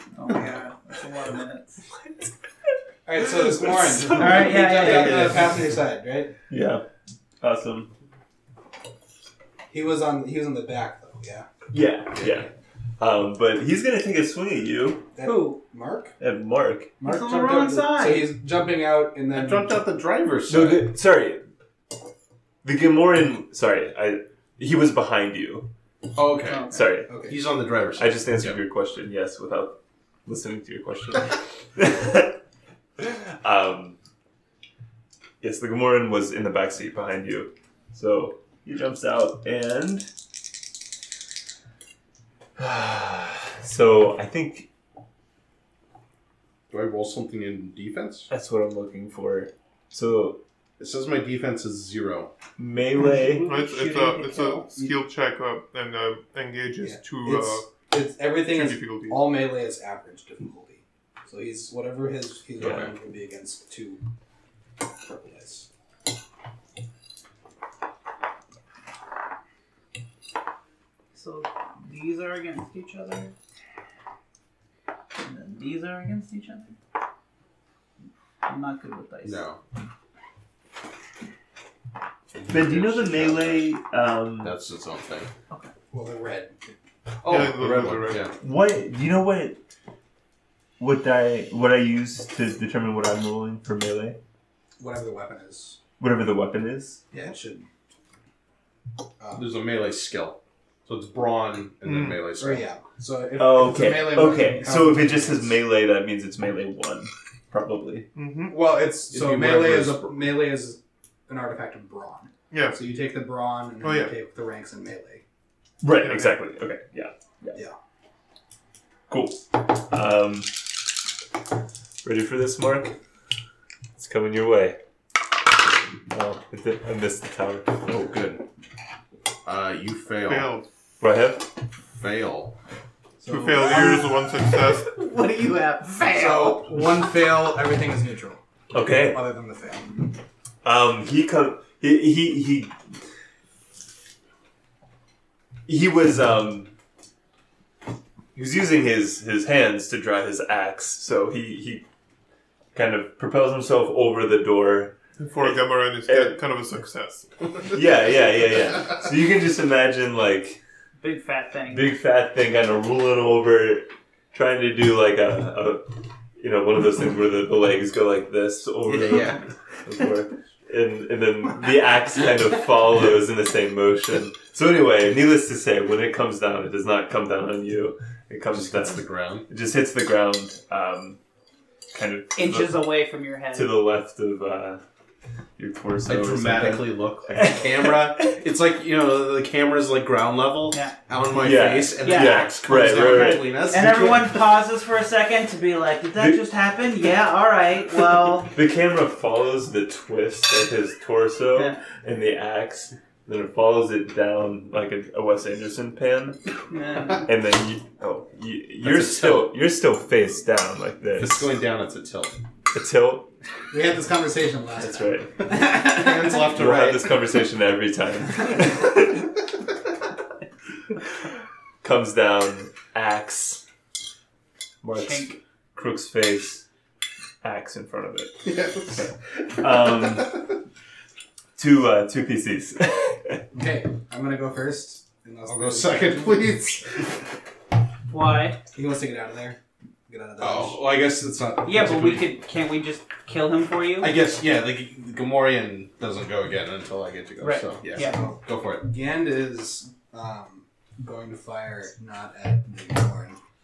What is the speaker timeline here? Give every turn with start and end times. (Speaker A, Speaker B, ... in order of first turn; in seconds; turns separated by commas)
Speaker A: 0.1-1.8, Speaker B: 3.1-6.3, Speaker C: 3.4-5.5, Speaker A: 4.1-5.5, Speaker C: 6.5-6.8, Speaker C: 7.4-7.9, Speaker B: 9.7-11.5, Speaker C: 11.7-15.1, Speaker B: 15.2-16.1, Speaker A: 15.2-15.6, Speaker C: 16.2-16.9, Speaker B: 17.0-19.8, Speaker A: 17.0-18.3, Speaker D: 19.3-20.9, Speaker C: 20.5-21.5, Speaker C: 22.6-25.7, Speaker D: 26.1-28.6, Speaker A: 26.5-26.9, Speaker C: 26.7-27.1, Speaker B: 27.1-27.4, Speaker C: 28.0-32.4, Speaker C: 33.0-34.0, Speaker C: 35.4-40.1, Speaker C: 42.6-44.7, Speaker D: 46.7-48.3, Speaker C: 48.3-50.4, Speaker D: 50.8-52.3, Speaker C: 52.6-53.5, Speaker A: 53.2-54.9, Speaker E: 53.4-57.7, Speaker B: 56.8-64.0, Speaker E: 58.5-59.4, Speaker C: 62.6-62.9, Speaker B: 64.9-65.7, Speaker A: 71.1-73.3, Speaker A: 75.2-76.8, Speaker A: 78.5-79.4, Speaker D: 79.2-79.6, Speaker D: 82.3-83.7, Speaker C: 82.5-84.5, Speaker D: 84.4-85.3, Speaker B: 85.9-86.6, Speaker D: 87.2-88.3, Speaker E: 87.3-88.3, Speaker C: 88.4-89.6, Speaker C: 90.8-94.2, Speaker B: 94.8-95.8, Speaker C: 96.0-97.0, Speaker B: 97.1-97.7, Speaker B: 99.2-99.5, Speaker D: 99.3-102.6, Speaker E: 101.8-102.2, Speaker B: 102.4-105.6, Speaker C: 103.4-108.1, Speaker E: 108.2-108.6, Speaker B: 108.5-115.2, Speaker D: 109.1-110.2, Speaker E: 112.5-112.8, Speaker E: 113.8-114.1, Speaker C: 115.8-117.6, Speaker E: 115.9-116.4, Speaker C: 119.1-120.7, Speaker C: 122.0-123.0, Speaker C: 124.0-124.8, Speaker C: 126.1-127.8, Speaker D: 127.8-128.4, Speaker D: 129.4-130.5, Speaker E: 130.3-130.7, Speaker C: 131.0-131.5, Speaker D: 132.0-132.6, Speaker B: 133.2-134.0, Speaker E: 133.3-134.9, Speaker A: 133.5-136.9, Speaker B: 136.1-138.4, Speaker C: 138.7-139.3, Speaker B: 139.0-140.1, Speaker C: 140.6-142.8, Speaker C: 145.7-146.7, Speaker C: 148.3-151.9, Speaker C: 152.7-156.4, Speaker E: 155.2-157.3, Speaker C: 157.7-160.6, Speaker A: 161.0-161.9, Speaker C: 161.7-181.2, Speaker D: 168.8-169.4, Speaker D: 178.5-179.5, Speaker C: 181.9-182.9, Speaker A: 182.3-183.8, Speaker C: 183.5-184.8, Speaker C: 185.6-188.3, Speaker D: 186.1-194.3, Speaker C: 191.4-193.6, Speaker A: 192.0-192.5, Speaker A: 193.0-198.6, Speaker C: 196.2-196.4, Speaker C: 198.4-206.4, Speaker A: 206.7-207.3, Speaker C: 207.2-211.6, Speaker D: 208.8-209.5, Speaker D: 211.2-212.4, Speaker C: 212.7-213.3, Speaker B: 213.7-216.5, Speaker C: 214.8-215.3, Speaker D: 215.8-217.3, Speaker C: 216.4-219.4, Speaker C: 221.8-223.6, Speaker C: 224.8-226.7, Speaker A: 224.9-225.4, Speaker C: 227.4-230.4, Speaker D: 228.4-229.1, Speaker C: 231.6-233.4, Speaker B: 233.5-236.6, Speaker D: 235.5-237.1, Speaker A: 238.1-238.6, Speaker B: 238.7-240.8, Speaker D: 240.4-242.3, Speaker A: 241.7-244.2, Speaker D: 244.0-248.8, Speaker A: 247.4-248.2, Speaker B: 248.0-253.4